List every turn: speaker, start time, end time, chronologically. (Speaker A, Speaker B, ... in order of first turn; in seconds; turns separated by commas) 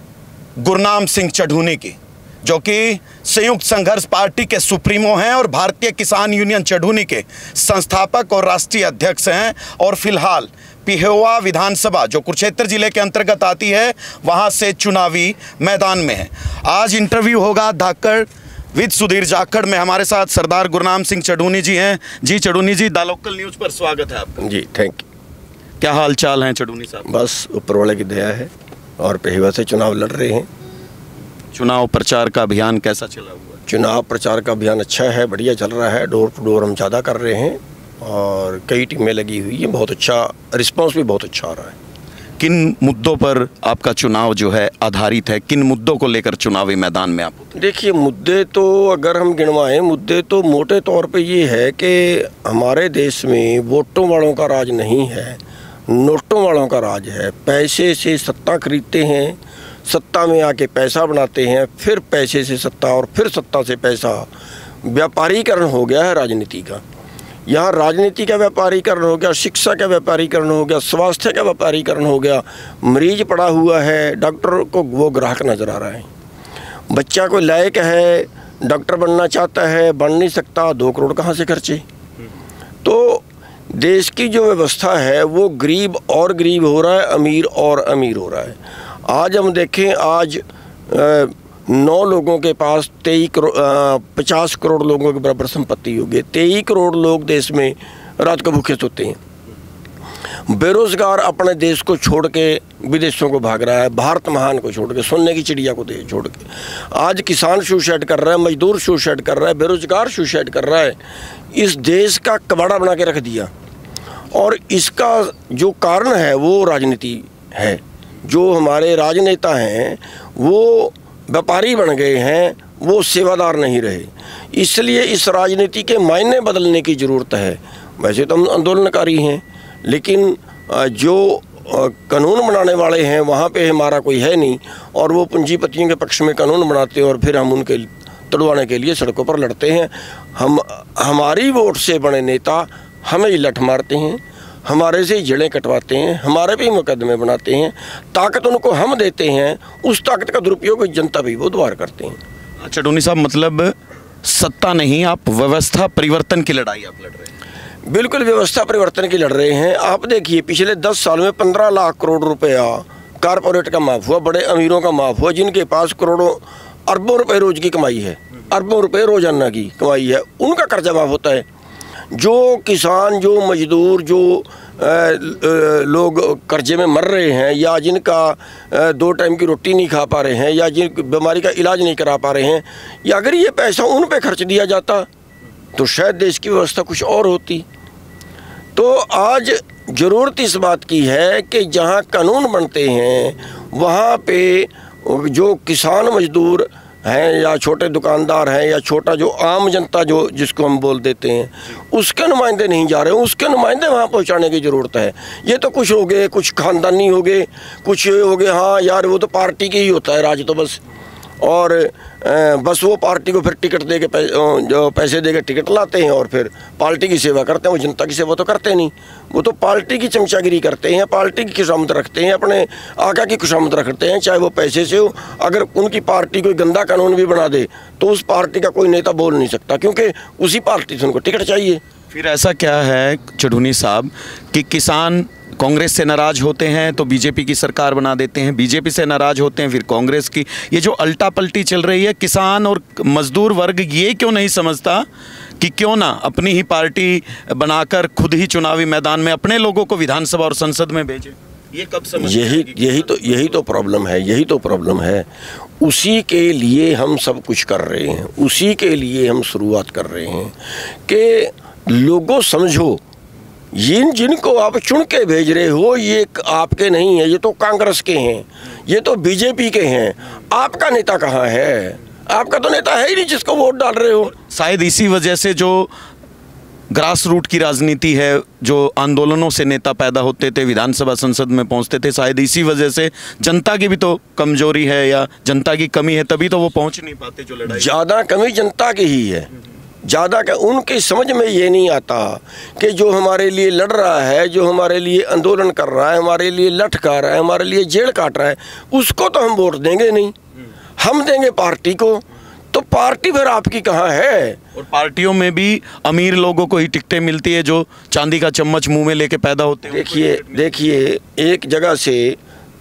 Speaker A: 0.6-24.4, Speaker B: 24.4-25.0, Speaker A: 25.8-27.1, Speaker B: 27.1-30.5, Speaker A: 31.5-33.6, Speaker B: 33.7-41.8, Speaker A: 42.4-47.6, Speaker B: 47.5-64.3, Speaker B: 64.8-66.8, Speaker B: 67.5-76.1, Speaker B: 76.9-81.8, Speaker B: 82.8-99.2, Speaker B: 100.5-111.0, Speaker B: 111.5-113.5, Speaker B: 114.3-152.2, Speaker A: 152.6-157.3, Speaker B: 157.9-171.5, Speaker B: 172.1-185.1, Speaker B: 185.8-187.7, Speaker B: 188.8-210.8, Speaker B: 211.4-231.8, Speaker A: 232.1-245.1, Speaker A: 245.6-253.7, Speaker B: 252.2-255.3, Speaker B: 255.8-263.0, Speaker B: 263.7-274.4, Speaker A: 274.4-275.9, Speaker A: 276.9-287.9, Speaker B: 287.7-289.5, Speaker B: 290.0-300.4, Speaker B: 301.0-304.6, Speaker A: 304.8-310.8, Speaker B: 309.9-312.4